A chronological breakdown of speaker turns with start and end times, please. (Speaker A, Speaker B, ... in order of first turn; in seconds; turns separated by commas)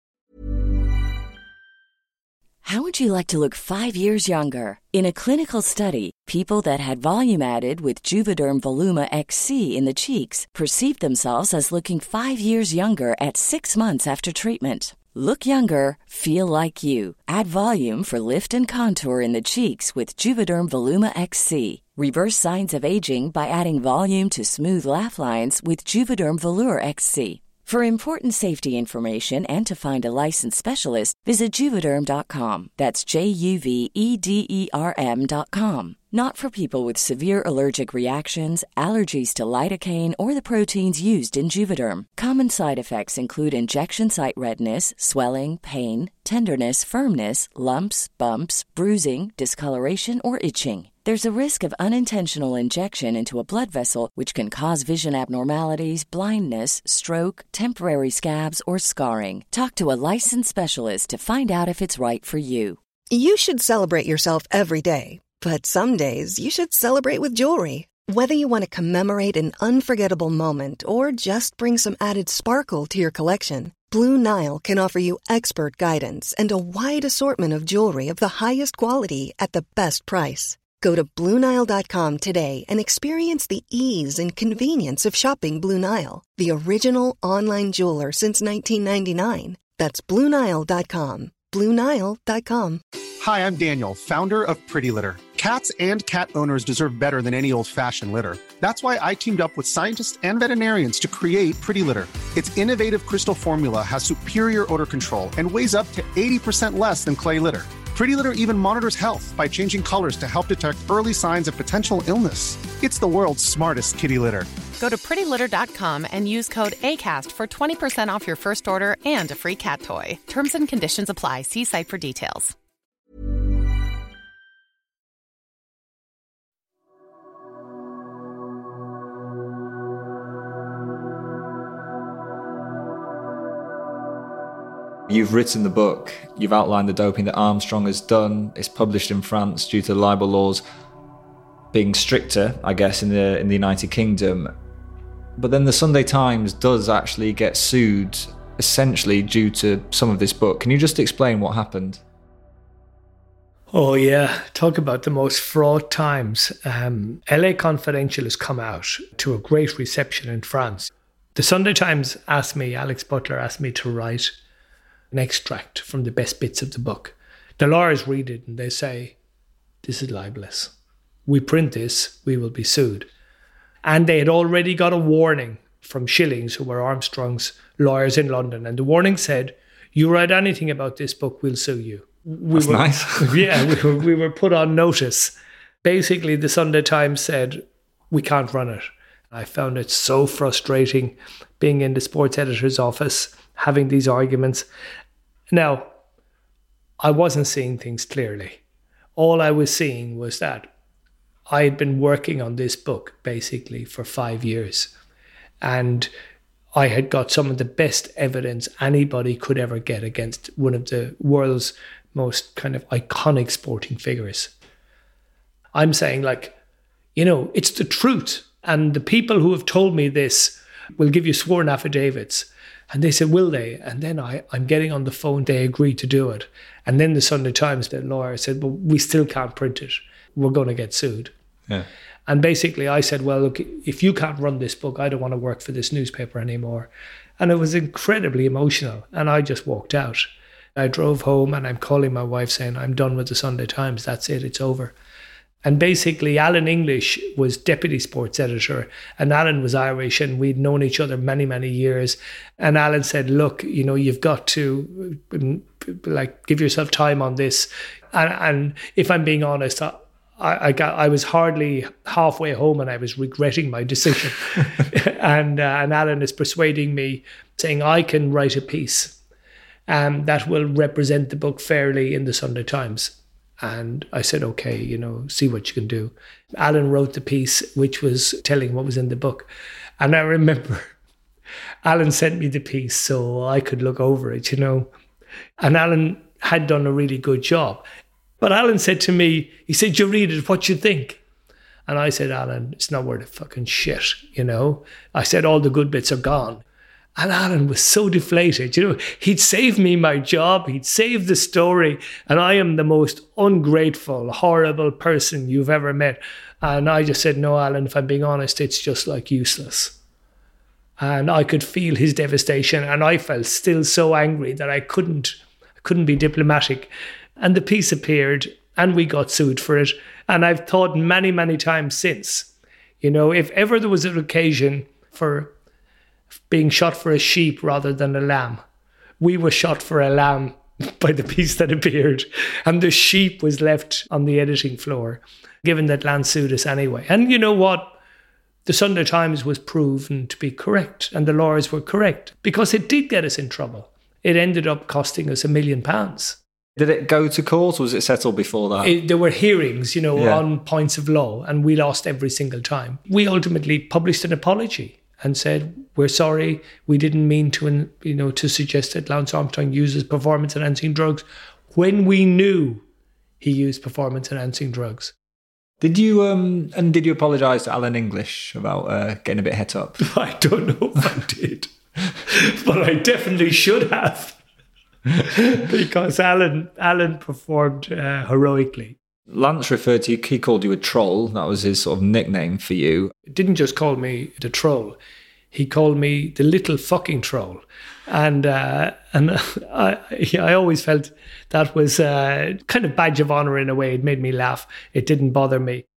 Speaker A: 2.6-62.8, Speaker B: 63.1-92.8, Speaker C: 93.2-114.5, Speaker D: 114.8-122.5, Speaker E: 135.1-140.6, Speaker E: 141.7-144.5, Speaker E: 145.4-152.0, Speaker F: 153.7-164.3, Speaker F: 165.1-169.2, Speaker F: 169.8-170.7, Speaker F: 171.2-173.1, Speaker F: 173.8-194.7, Speaker E: 182.5-183.8, Speaker F: 195.5-195.9, Speaker F: 197.0-198.6, Speaker F: 199.2-200.7, Speaker F: 201.5-204.9, Speaker F: 205.6-206.1, Speaker F: 206.7-214.5, Speaker F: 215.7-216.5, Speaker F: 217.2-231.3, Speaker F: 232.3-244.9, Speaker F: 245.6-269.2, Speaker F: 269.9-279.5, Speaker F: 280.0-280.9, Speaker F: 281.8-284.9, Speaker F: 285.6-287.8, Speaker F: 288.4-291.2, Speaker F: 291.9-296.6, Speaker F: 297.2-309.9, Speaker F: 311.0-322.5, Speaker F: 323.0-325.5, Speaker F: 326.5-328.6, Speaker F: 329.2-338.0, Speaker F: 338.6-346.4, Speaker E: 346.8-348.9, Speaker F: 348.8-362.8, Speaker E: 350.1-350.4, Speaker F: 363.4-365.1, Speaker E: 365.8-370.0, Speaker F: 370.0-371.7, Speaker F: 372.2-374.4, Speaker F: 375.2-378.9, Speaker E: 379.3-383.1, Speaker F: 383.3-385.0, Speaker F: 385.5-395.8